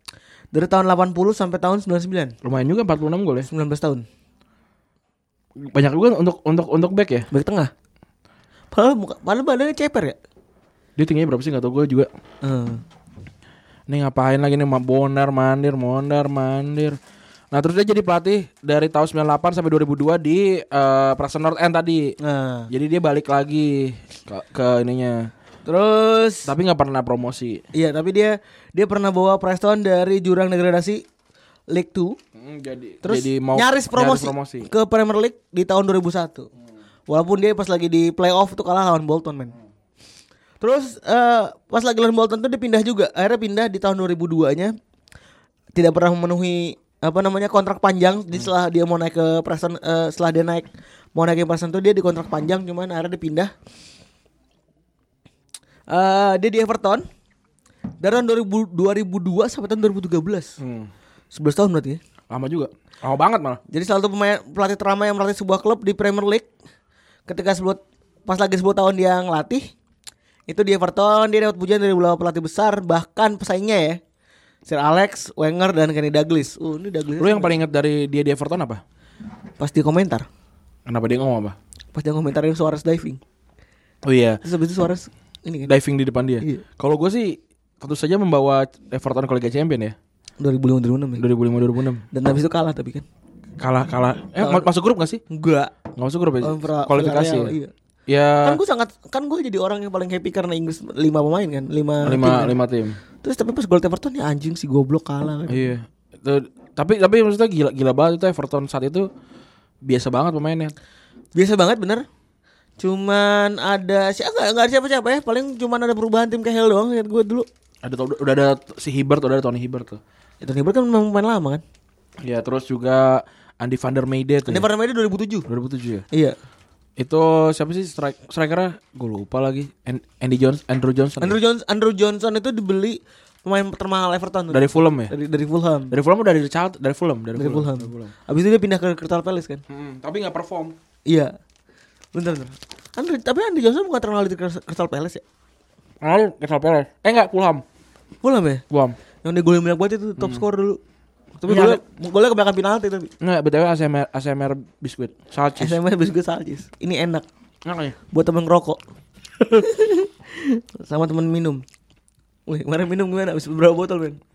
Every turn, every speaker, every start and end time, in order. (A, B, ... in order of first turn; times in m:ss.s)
0:00.5-0:02.3 A
0:02.4-0:03.5 B
0:03.5-0:04.0 A
0:05.6-0:07.3 B
0:07.3-0:07.7 A
0:08.7-0:10.2 A
0:11.0-0:12.1 B
0:12.4-0:12.8 A
0:13.9-0:17.0 B
0:17.5-0:22.1 B
0:22.2-0:22.7 A
0:22.7-0:25.3 B
0:25.6-0:26.5 A
0:26.4-0:27.6 B
0:27.7-0:31.0 A
0:31.7-0:32.2 A
0:32.4-0:34.7 B
0:33.0-0:36.5 A
0:37.1-0:39.5 A
0:40.6-0:44.7 A
0:45.7-0:53.5 A
0:55.9-0:57.0 A
0:58.0-1:00.6 A
1:00.6-1:00.9 B
1:01.3-1:02.0 A
1:02.3-1:03.6 B
1:03.7-1:06.5 A
1:07.3-1:09.7 A
1:10.5-1:14.0 A
1:14.6-1:17.6 A
1:17.2-1:18.8 B
1:19.6-1:20.3 A
1:20.8-1:21.6 B
1:21.9-1:23.2 A
1:24.0-1:24.4 B
1:24.4-1:25.7 A
1:25.7-1:30.0 B
1:30.4-1:31.2 A
1:31.2-1:32.0 B
1:32.1-1:33.0 A
1:33.6-1:35.2 B
1:34.4-1:34.7 A
1:35.3-1:35.7 A
1:36.0-1:37.5 B
1:36.4-1:37.7 A
1:38.1-1:38.6 B
1:38.4-1:42.6 A
1:42.0-1:43.0 B
1:43.2-1:45.7 A
1:45.5-1:49.1 B
1:49.8-1:50.7 B
1:51.3-1:52.0 A
1:52.8-1:57.5 A
1:57.8-2:00.0 B
2:00.4-2:01.6 A
2:02.2-2:04.7 B
2:04.5-2:05.5 A
2:05.5-2:06.0 B
2:06.1-2:06.4 A
2:07.0-2:11.4 B
2:11.2-2:15.9 A
2:14.5-2:15.1 B
2:15.9-2:18.1 B
2:17.4-2:19.6 A
2:19.7-2:20.8 B
2:21.1-2:21.3 A
2:22.1-2:25.2 A
2:26.0-2:27.6 B
2:28.2-2:28.6 A
2:28.7-2:29.0 B
2:29.2-2:30.8 A
2:30.2-2:30.4 B
2:31.4-2:33.1 A
2:31.4-2:31.8 B
2:33.2-2:35.8 B
2:35.6-2:37.2 A
2:37.6-2:38.0 B
2:38.1-2:38.8 A
2:39.4-2:41.6 A
2:42.5-2:44.2 A